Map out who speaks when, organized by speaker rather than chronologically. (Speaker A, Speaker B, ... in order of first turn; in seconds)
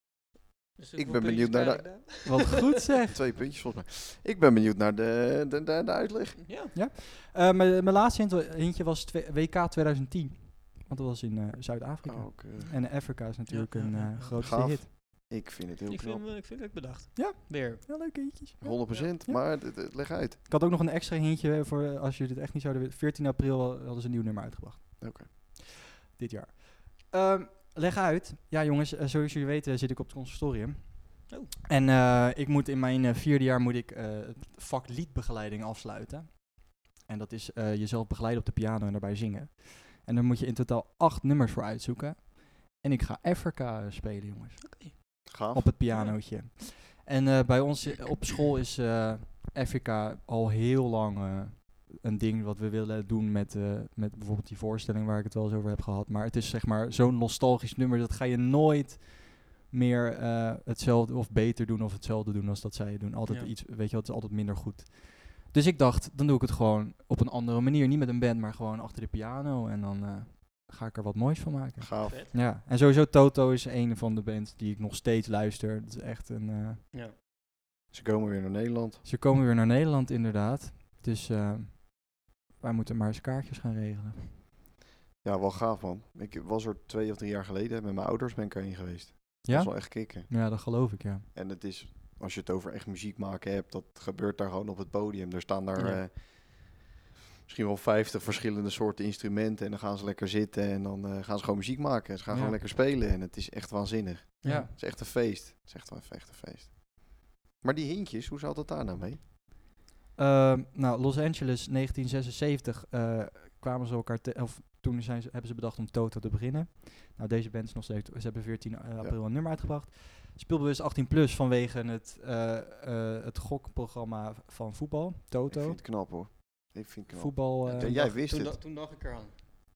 Speaker A: 0.8-2.6, 6.4-6.7, 13.5-14.4, 15.9-18.1, 44.6-44.9, 45.9-46.2, 72.0-72.3, 95.8-96.0, 104.4-104.7, 127.6-129.3
Speaker B: 0.9-2.1, 3.1-6.4, 12.0-12.7, 14.4-16.2, 18.6-20.4, 25.0-25.3, 45.2-45.7, 71.8-72.2, 77.9-79.0, 85.2-90.8, 91.3-96.8, 97.5-109.2, 125.5-128.6
Speaker C: 2.2-3.2, 6.7-14.9, 17.1-76.8, 79.0-84.3, 89.4-91.3, 102.3-102.6, 104.4-104.7, 110.2-125.8, 127.1-128.0